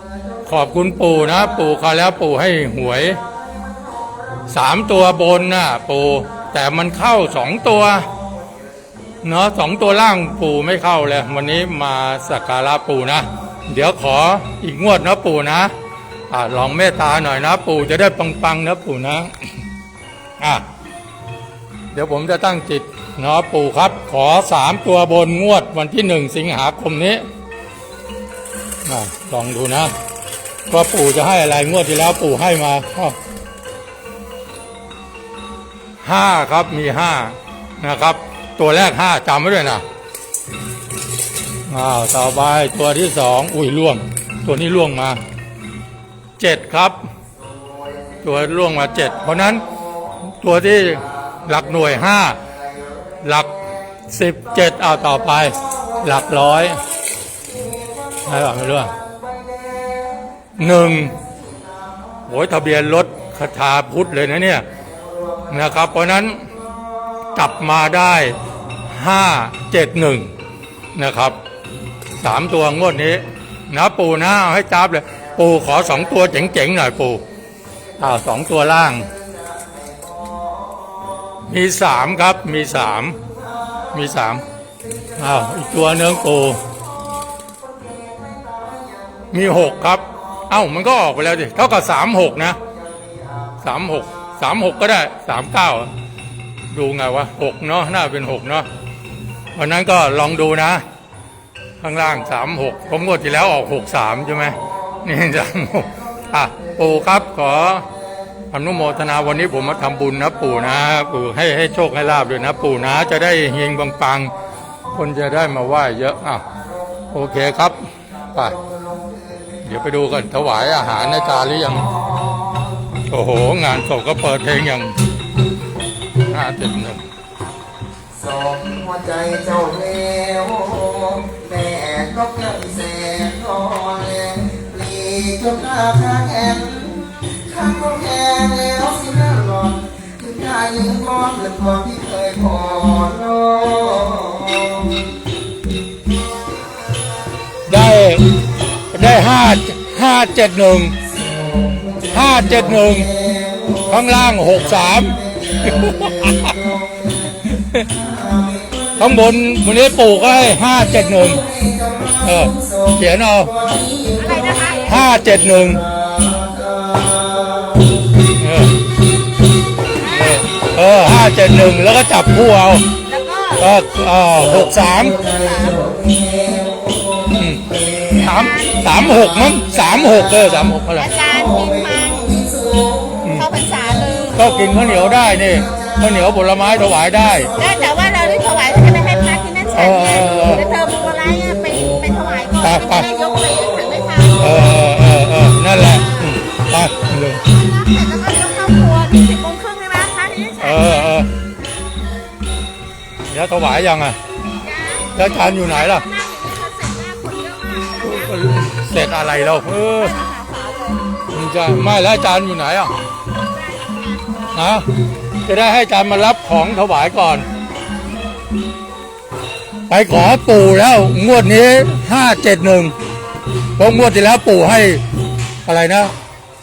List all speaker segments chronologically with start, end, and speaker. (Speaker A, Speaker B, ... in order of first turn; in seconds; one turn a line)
Speaker A: 0.5-3.2
Speaker A: 4.5-8.1
Speaker A: 9.2-15.7
Speaker A: 16.3-19.5
Speaker A: 20.4-20.7
Speaker A: 21.9-27.3
Speaker A: 28.8-29.9
Speaker A: 30.7-33.2
Speaker A: 36.0-39.8
Speaker A: 41.7-45.2
Speaker A: 46.4-47.1
Speaker A: 48.2-49.6
Speaker A: 50.2-52.4
Speaker A: 53.2-53.6
Speaker A: 54.1-56.8
Speaker A: 58.2-59.0
Speaker A: 60.6-61.2
Speaker A: 62.3-64.7
Speaker A: 65.5-66.5
Speaker A: 67.3-70.3
Speaker A: 70.9-71.4
Speaker A: 72.2-77.2
Speaker A: 78.0-79.1
Speaker A: 81.5-83.2
Speaker A: 83.9-84.4
Speaker A: 85.2-86.6
Speaker A: 89.3-92.6
Speaker A: 93.6-95.9
Speaker A: 96.7-98.7
Speaker A: 99.5-100.8
Speaker A: 101.8-107.9
Speaker A: 108.5-114.3
Speaker A: 114.9-116.4
Speaker A: 117.1-118.6
Speaker A: 119.6-121.9
Speaker A: 123.1-125.0
Speaker A: 126.2-127.1
Speaker B: 128.2-144.8
Speaker A: 147.7-148.3
Speaker A: 148.9-150.9
Speaker A: 152.0-153.2
Speaker A: 153.8-156.6
Speaker A: 157.5-157.9
Speaker A: 159.0-161.4
Speaker A: 162.1-163.6
Speaker B: 163.7-164.1
Speaker C: 164.1-165.0
Speaker A: 164.8-165.9
Speaker B: 166.1-167.8
Speaker A: 168.3-168.8
Speaker C: 170.0-170.7
Speaker A: 170.0-172.9
Speaker C: 173.0-173.7
Speaker A: 173.6-175.2
Speaker C: 175.2-175.8
Speaker B: 175.8-177.1
Speaker A: 177.3-181.1
Speaker C: 178.1-179.3
Speaker C: 180.9-182.4
Speaker B: 182.4-183.2
Speaker C: 183.3-184.4
Speaker A: 184.3-187.5
Speaker C: 187.5-194.6
Speaker A: 189.7-190.7
Speaker A: 192.6-193.1
Speaker A: 194.4-197.5
Speaker C: 197.4-201.2
Speaker A: 200.6-201.3
Speaker A: 203.3-204.2
Speaker C: 204.5-208.5
Speaker A: 205.1-206.1
Speaker A: 208.0-210.1
Speaker C: 209.2-211.2
Speaker A: 211.3-212.9
Speaker C: 213.4-214.5
Speaker A: 214.5-214.9
Speaker A: 215.4-217.5
Speaker A: 219.9-222.9
Speaker A: 223.8-225.0
Speaker A: 225.7-226.1